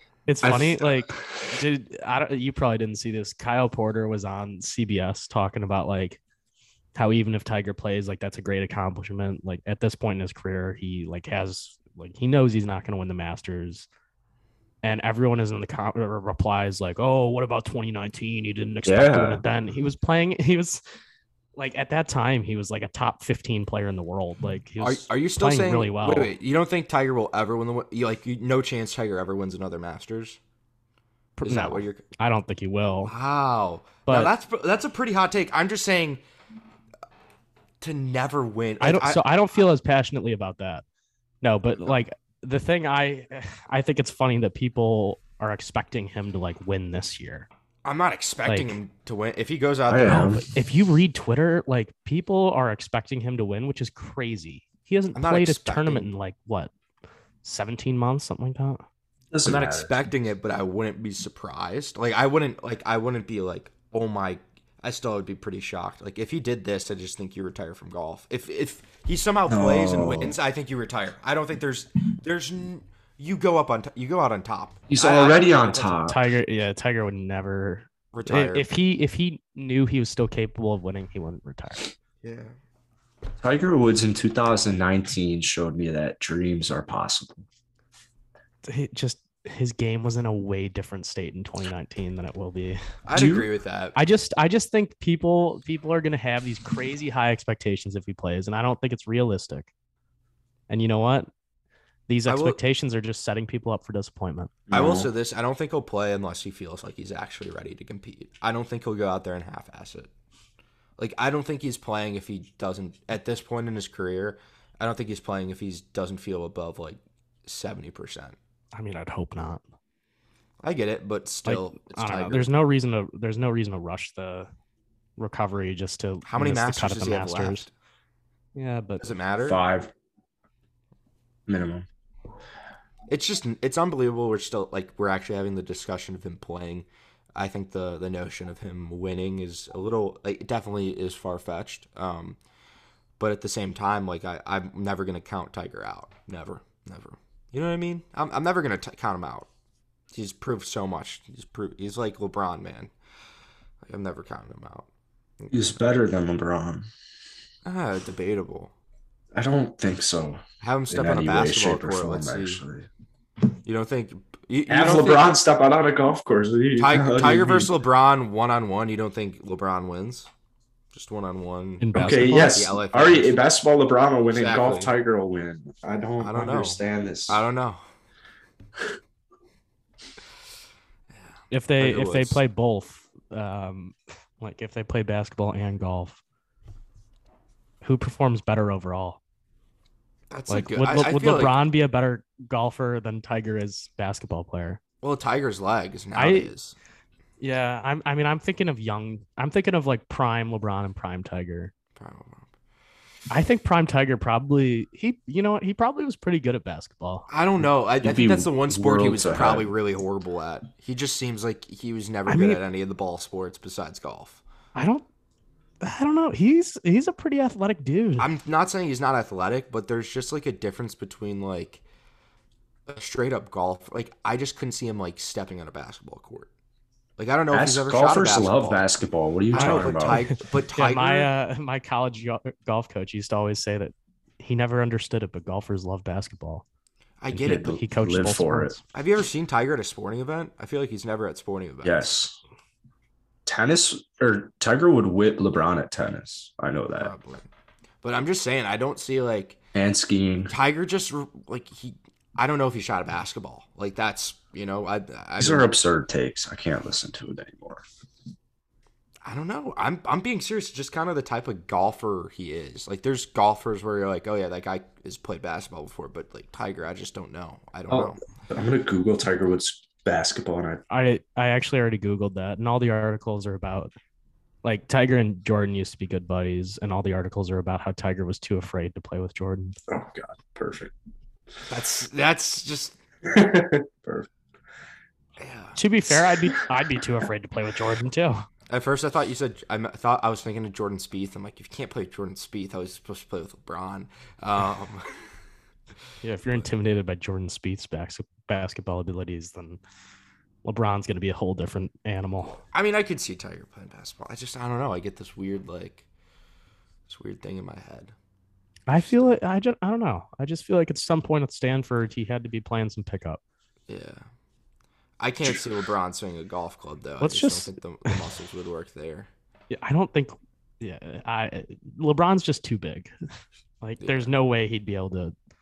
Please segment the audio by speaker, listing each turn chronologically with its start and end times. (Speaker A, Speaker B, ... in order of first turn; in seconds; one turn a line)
Speaker A: 0.3-6.2
Speaker B: 0.4-1.4
Speaker A: 7.0-13.9
Speaker A: 14.8-20.8
Speaker B: 18.9-19.4
Speaker A: 21.6-26.3
Speaker C: 24.8-30.4
Speaker A: 31.4-33.1
Speaker C: 31.4-32.0
Speaker C: 33.1-36.2
Speaker A: 34.1-34.3
Speaker C: 37.8-39.2
Speaker A: 38.8-40.8
Speaker A: 41.4-47.5
Speaker C: 47.9-50.4
Speaker A: 48.5-48.8
Speaker B: 49.9-50.5
Speaker A: 50.1-56.7
Speaker C: 55.1-56.1
Speaker A: 57.4-58.8
Speaker B: 59.3-59.9
Speaker C: 59.5-76.0
Speaker B: 69.5-70.4
Speaker B: 74.9-76.3
Speaker A: 76.0-81.9
Speaker C: 78.1-78.7
Speaker C: 82.2-82.6
Speaker B: 83.4-87.5
Speaker A: 88.7-92.8
Speaker C: 93.1-94.0
Speaker B: 93.2-93.5
Speaker A: 94.0-99.7
Speaker A: 100.7-101.3
Speaker A: 102.1-104.5
Speaker C: 102.3-102.6
Speaker B: 104.7-105.1
Speaker C: 104.7-110.1
Speaker C: 111.0-118.4
Speaker A: 118.7-119.6
Speaker C: 120.6-122.5
Speaker A: 121.5-124.5
Speaker A: 125.2-127.7
Speaker C: 126.2-127.7
Speaker A: 128.6-129.1
Speaker C: 129.0-129.6
Speaker B: 129.4-129.9
Speaker B: 131.5-131.9
Speaker C: 133.1-142.4
Speaker C: 143.2-149.5
Speaker C: 150.1-152.9
Speaker C: 153.8-154.9
Speaker C: 155.4-155.7
Speaker B: 155.5-156.9
Speaker C: 157.7-158.7
Speaker B: 159.3-162.9
Speaker C: 160.6-162.6
Speaker C: 163.6-165.4
Speaker B: 164.7-167.7
Speaker C: 166.8-170.3
Speaker C: 170.9-173.4
Speaker A: 171.8-172.6
Speaker B: 171.9-177.4
Speaker C: 174.3-174.9
Speaker C: 176.2-177.8
Speaker A: 181.5-186.2
Speaker C: 181.8-182.4
Speaker A: 187.8-189.2
Speaker C: 190.3-191.6
Speaker A: 190.5-194.8
Speaker C: 195.0-196.8
Speaker A: 196.2-196.5
Speaker A: 197.4-201.7
Speaker C: 202.0-202.5
Speaker A: 203.3-207.3
Speaker C: 207.3-214.4
Speaker B: 208.0-209.7
Speaker A: 212.3-212.6
Speaker A: 214.8-215.0
Speaker A: 215.8-218.3
Speaker C: 218.2-221.8
Speaker C: 222.9-226.5
Speaker C: 227.2-228.9
Speaker B: 227.5-230.3
Speaker C: 229.5-231.3
Speaker A: 229.5-236.7
Speaker C: 237.2-237.8
Speaker A: 237.3-238.8
Speaker B: 237.4-238.8
Speaker C: 238.9-242.1
Speaker B: 241.8-242.4
Speaker B: 243.5-247.1
Speaker C: 246.9-247.5
Speaker C: 248.0-249.6
Speaker B: 249.8-250.5
Speaker C: 250.5-255.7
Speaker B: 255.4-257.9
Speaker C: 259.2-268.2
Speaker B: 267.9-270.8
Speaker A: 270.9-273.9
Speaker A: 274.6-279.8
Speaker B: 279.9-280.9
Speaker C: 281.7-283.0
Speaker B: 283.2-284.3
Speaker C: 285.4-285.8
Speaker A: 285.8-288.5
Speaker C: 288.7-295.3
Speaker A: 296.2-299.8
Speaker A: 300.6-302.6
Speaker C: 302.7-306.1
Speaker C: 307.1-308.1
Speaker A: 308.9-313.4
Speaker C: 313.9-314.3
Speaker C: 315.2-319.3
Speaker A: 317.2-318.2
Speaker A: 319.7-323.1
Speaker A: 323.8-325.4
Speaker C: 324.0-324.3